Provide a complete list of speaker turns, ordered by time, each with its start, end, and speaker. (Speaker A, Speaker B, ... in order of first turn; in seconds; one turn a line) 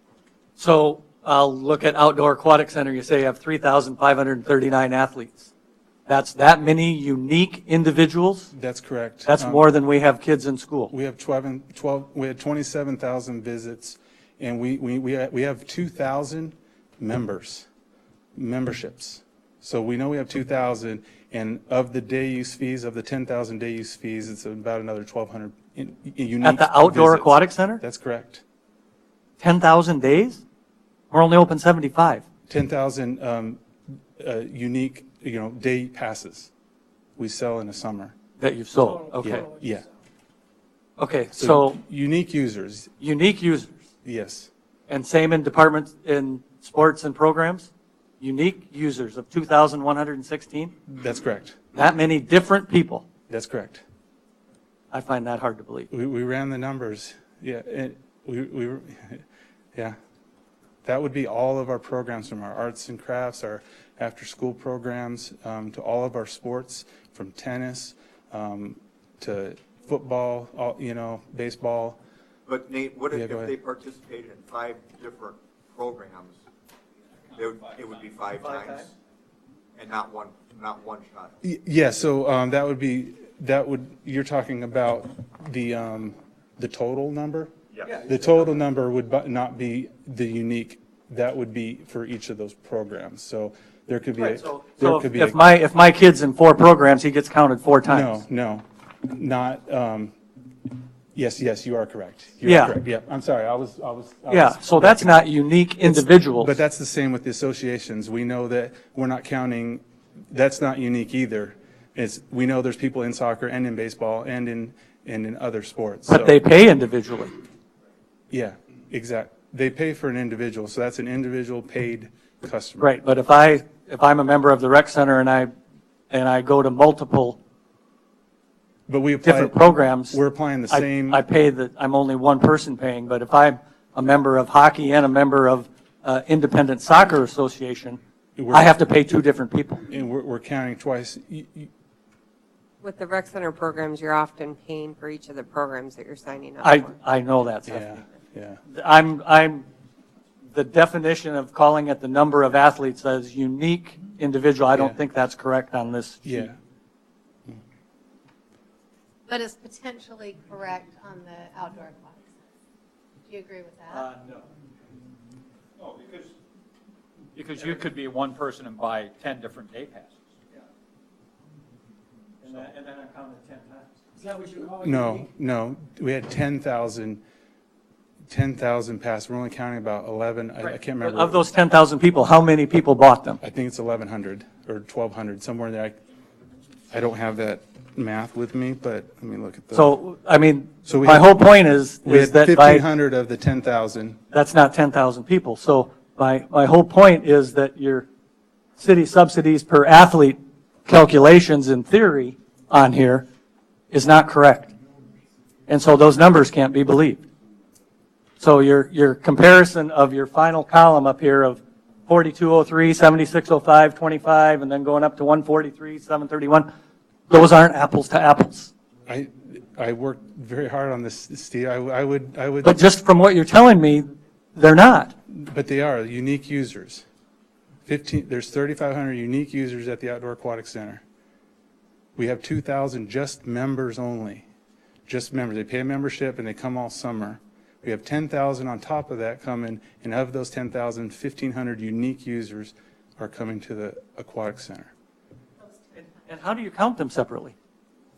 Speaker A: 0.6-5.5
Speaker A: 6.1-8.5
Speaker B: 8.5-9.7
Speaker A: 9.2-10.9
Speaker B: 10.9-17.7
Speaker B: 18.3-28.4
Speaker A: 26.4-27.8
Speaker A: 29.4-30.4
Speaker A: 31.1-32.2
Speaker B: 32.5-33.6
Speaker B: 34.2-36.5
Speaker B: 37.2-38.1
Speaker A: 38.4-39.5
Speaker B: 39.2-39.8
Speaker A: 41.0-41.8
Speaker B: 41.3-42.9
Speaker A: 43.0-43.8
Speaker B: 44.0-44.5
Speaker A: 44.9-47.7
Speaker A: 48.2-50.7
Speaker B: 50.9-51.6
Speaker A: 51.7-53.0
Speaker B: 53.3-53.8
Speaker A: 54.9-55.9
Speaker B: 55.9-59.2
Speaker B: 60.8-72.0
Speaker C: 72.5-76.4
Speaker B: 73.1-73.5
Speaker C: 77.3-78.9
Speaker A: 78.3-78.9
Speaker C: 79.7-81.3
Speaker B: 81.4-87.5
Speaker C: 87.7-88.1
Speaker B: 88.0-95.4
Speaker A: 94.2-98.2
Speaker B: 97.8-100.1
Speaker B: 101.1-105.2
Speaker A: 102.4-102.8
Speaker A: 104.3-106.6
Speaker B: 105.8-116.4
Speaker A: 116.1-117.3
Speaker B: 118.3-122.9
Speaker A: 122.8-125.5
Speaker A: 126.1-127.4
Speaker B: 128.9-129.6
Speaker A: 129.2-130.2
Speaker B: 130.1-131.2
Speaker A: 130.7-139.8
Speaker B: 138.4-138.7
Speaker B: 139.9-141.7
Speaker D: 142.8-146.9
Speaker A: 146.6-147.9
Speaker B: 147.7-148.6
Speaker A: 148.7-149.7
Speaker A: 150.5-156.5
Speaker B: 154.7-155.0
Speaker B: 156.2-156.6
Speaker E: 159.3-162.3
Speaker E: 163.3-164.1
Speaker A: 163.9-164.4
Speaker F: 167.4-170.1
Speaker A: 167.4-167.9
Speaker A: 172.4-175.3
Speaker B: 174.8-177.2
Speaker B: 178.3-181.4
Speaker A: 180.6-183.4
Speaker B: 183.4-186.0
Speaker B: 186.9-189.9
Speaker A: 189.7-192.8
Speaker B: 190.8-191.3
Speaker B: 192.0-194.2
Speaker A: 194.3-198.1
Speaker A: 198.8-203.2
Speaker A: 203.9-204.7
Speaker A: 205.7-207.2
Speaker A: 208.4-216.7
Speaker A: 217.3-218.7
Speaker B: 219.1-222.8
Speaker A: 222.6-225.1
Speaker B: 225.3-227.1
Speaker B: 227.8-231.0
Speaker B: 232.2-234.4
Speaker B: 235.1-244.9
Speaker A: 245.9-247.5